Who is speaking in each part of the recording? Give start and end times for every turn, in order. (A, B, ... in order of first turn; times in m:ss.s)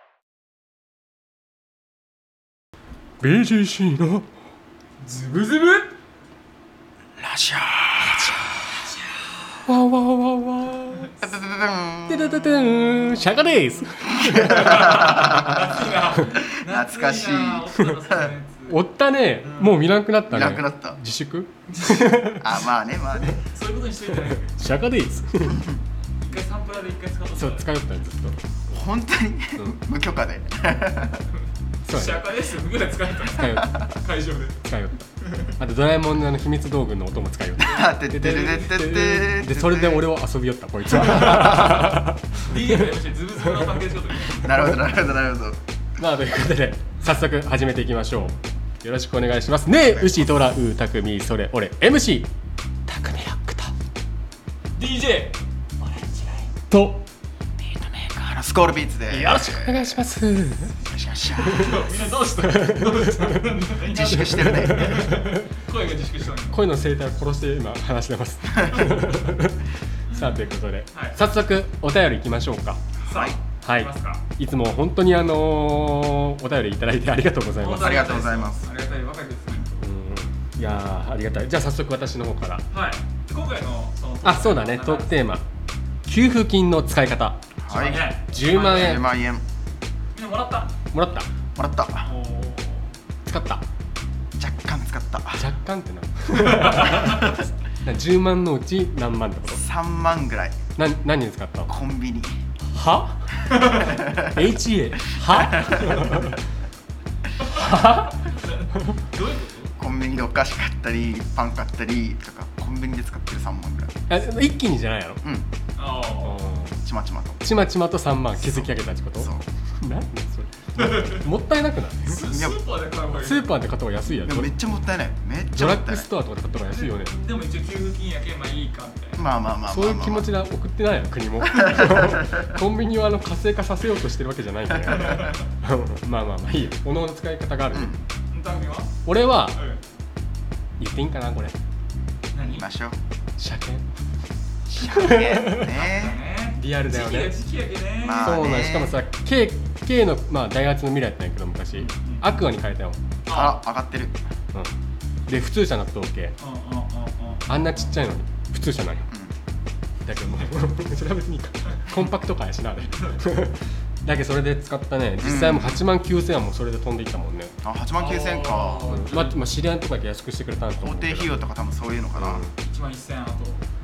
0:03.2-0:04.3 A
0:05.0-0:05.9 B
0:07.2-0:08.6 C
0:09.6-0:11.1 A
0:11.2-0:12.8 C
0:12.1-0:15.7 A
0:14.1-0:15.7 C
0:14.3-0:18.8 B
0:16.3-0:18.3 C
0:18.7-0:22.5 A
0:19.4-0:19.8 B
0:20.3-0:21.0 C
0:21.7-0:22.2 B
0:22.4-0:23.4 C
0:23.4-0:24.5 B
0:24.3-0:25.6 A
0:26.2-0:27.7 B
0:27.3-0:28.4 A
0:28.7-0:31.2 C
0:31.3-0:34.7 B
0:31.8-0:32.3 A
0:33.3-0:33.8 A
0:34.6-0:42.9 A
0:35.2-0:35.5 B
0:37.6-0:40.1 C
0:41.1-0:41.7 C
0:41.3-0:44.5 B
0:44.3-0:45.6 C
0:46.0-0:52.3 A
0:49.8-0:50.3 C
0:52.8-0:53.7 A
0:54.8-0:56.5 B
0:56.7-0:57.0 A
0:57.6-1:00.0 C
0:59.1-1:00.7 A
1:00.8-1:01.8 C
1:01.4-1:06.6 B
1:02.4-1:03.5 A
1:03.8-1:05.1 C
1:04.1-1:05.3 A
1:06.5-1:12.8 A
1:10.1-1:11.2 B
1:13.0-1:13.4 C
1:13.0-1:14.2 B
1:13.6-1:18.1 A
1:17.6-1:19.7 B
1:17.7-1:18.7 C
1:19.8-1:22.6 A
1:22.7-1:25.2 B
1:24.2-1:25.4 A
1:26.0-1:27.5 A
1:27.6-1:29.4 C
1:27.7-1:29.0 B
1:28.3-1:29.1 A
1:30.1-1:30.7 B
1:30.9-1:31.3 A
1:31.6-1:32.1 C
1:32.0-1:32.9 B
1:33.2-1:33.6 A
1:34.4-1:35.5 C
1:35.4-1:39.6 A
1:36.3-1:37.3 B
1:39.5-1:40.6 C
1:40.8-1:41.7 A
1:41.7-1:42.4 C
1:42.7-1:46.4 A
1:43.5-1:44.3 C
1:43.5-1:43.9 B
1:45.3-1:46.2 C
1:47.5-1:48.3 A
1:48.2-1:49.7 B
1:49.8-1:54.0 C
1:54.1-1:55.2 A
1:55.8-1:56.5 B
1:56.2-1:56.8 A
1:56.8-1:57.4 C
1:57.4-2:02.3 A
1:58.4-1:59.4 C
2:00.8-2:01.2 B
2:02.0-2:03.5 B
2:02.3-2:02.6 C
2:03.1-2:04.5 A
2:04.2-2:06.1 C
2:05.5-2:07.2 A
2:06.6-2:09.2 B
2:09.2-2:10.3 C
2:09.7-2:17.9 A
2:11.5-2:12.4 C
2:14.9-2:15.4 B
2:17.7-2:18.0 C
2:18.3-2:19.0 B
2:19.0-2:19.6 A
2:19.5-2:19.8 B
2:20.8-2:21.5 A
2:22.3-2:22.6 B
2:22.4-2:23.0 C
2:23.4-2:23.8 A
2:24.7-2:26.2 C
2:24.7-2:25.7 A
2:25.7-2:28.4 B
2:26.6-2:27.4 A
2:28.0-2:28.9 C
2:28.2-2:33.0 A
2:31.7-2:32.4 B
2:33.3-2:33.6 B
2:33.3-2:34.2 C
2:35.3-2:36.3 A
2:36.4-2:37.9 B
2:37.5-2:39.1 A
2:40.0-2:47.5 A
2:42.9-2:43.2 B
2:45.2-2:45.8 C
2:47.6-2:49.0 C
2:48.0-2:49.4 B
2:48.9-2:51.3 A
2:50.8-2:52.4 C
2:52.2-2:52.5 A
2:52.6-2:53.6 B